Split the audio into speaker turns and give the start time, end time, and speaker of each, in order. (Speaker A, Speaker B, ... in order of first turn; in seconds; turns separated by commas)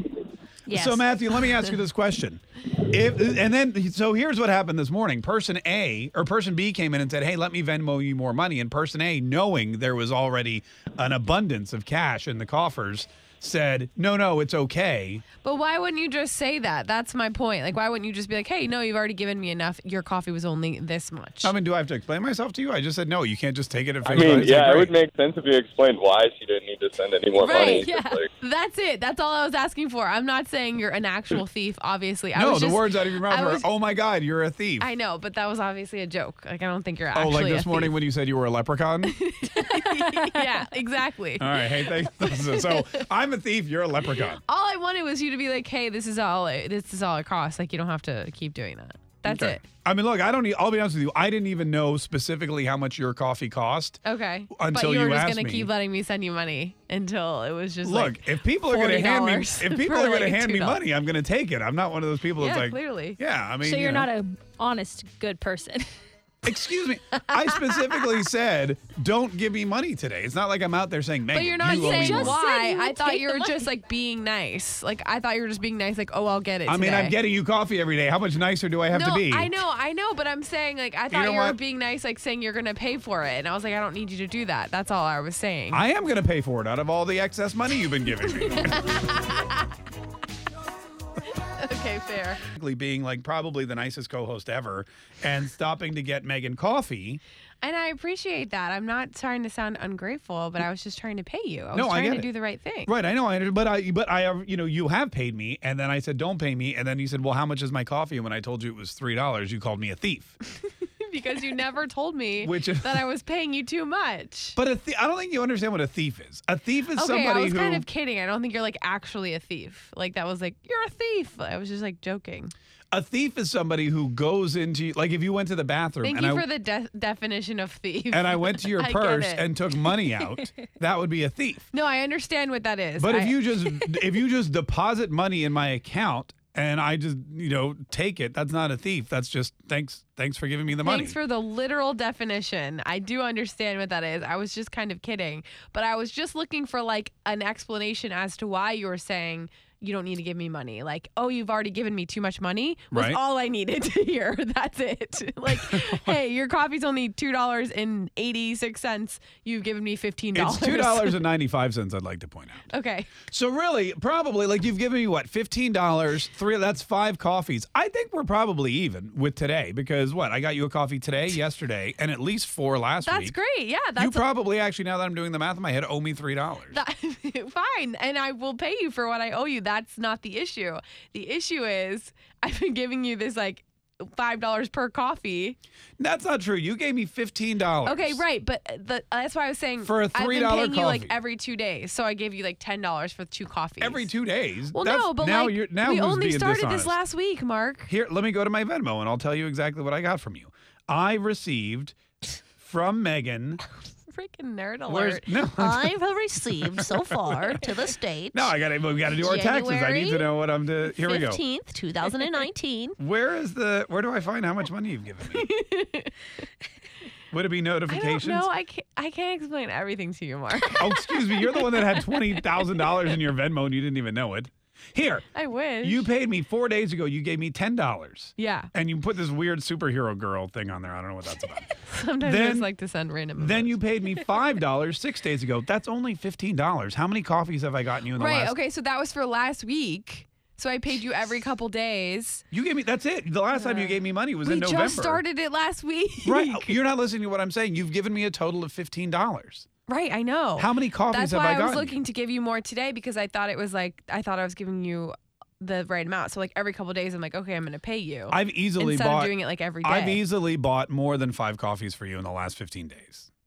Speaker A: 0.7-1.1, Speaker B: 0.7-15.2, Speaker C: 15.4-21.5, Speaker B: 21.4-24.9, Speaker D: 24.0-28.3, Speaker C: 27.4-27.9, Speaker A: 27.6-28.2, Speaker C: 28.4-33.7, Speaker B: 32.3-34.9, Speaker C: 34.8-38.0, Speaker B: 37.1-39.1, Speaker C: 39.0-43.0, Speaker A: 39.5-40.4, Speaker B: 41.4-44.4, Speaker C: 44.4-49.6, Speaker B: 49.2-55.7, Speaker C: 54.0-60.8, Speaker B: 57.8-64.1, Speaker C: 62.4-63.2, Speaker A: 63.6-65.8, Speaker B: 66.4-72.4, Speaker C: 71.3-77.2, Speaker A: 71.6-73.6, Speaker B: 76.7-79.5, Speaker C: 78.9-85.8, Speaker B: 81.1-81.6, Speaker B: 85.7-88.9, Speaker C: 88.4-89.7, Speaker C: 91.5-92.4, Speaker B: 92.5-97.2, Speaker C: 97.6-102.9, Speaker B: 101.7-102.3, Speaker B: 102.8-110.3, Speaker C: 111.0-114.6, Speaker B: 112.4-113.0, Speaker B: 114.5-117.8, Speaker C: 116.9-122.5, Speaker B: 122.9-126.5, Speaker C: 126.0-129.5, Speaker B: 128.1-131.7, Speaker C: 131.7-133.4, Speaker B: 133.0-141.2, Speaker C: 140.8-161.2, Speaker B: 152.9-153.2, Speaker B: 155.5-156.1, Speaker B: 160.3-162.7, Speaker C: 162.7-163.1, Speaker B: 163.2-173.4, Speaker C: 173.0-174.2, Speaker B: 174.0-176.8, Speaker C: 176.7-185.6, Speaker B: 186.0-188.2, Speaker C: 187.8-194.1, Speaker B: 189.8-191.1, Speaker B: 193.8-196.9, Speaker C: 194.7-197.9, Speaker B: 197.9-202.0, Speaker B: 202.6-203.6, Speaker C: 204.1-205.3, Speaker B: 204.9-207.3, Speaker E: 205.6-208.5, Speaker C: 207.1-207.9, Speaker B: 208.3-211.4, Speaker E: 209.3-210.0, Speaker E: 211.0-212.9, Speaker C: 212.0-212.6, Speaker B: 213.0-215.5, Speaker C: 215.3-216.1, Speaker B: 217.3-218.5, Speaker C: 217.9-221.0, Speaker B: 220.7-225.3, Speaker C: 225.3-226.1, Speaker B: 225.8-231.7, Speaker C: 228.4-228.7, Speaker C: 231.9-233.8, Speaker B: 232.2-232.7, Speaker B: 233.4-238.6, Speaker C: 238.1-242.4, Speaker B: 242.5-245.2, Speaker C: 243.5-246.8, Speaker B: 246.2-249.7, Speaker C: 249.9-260.2, Speaker B: 250.6-252.0, Speaker B: 258.3-263.3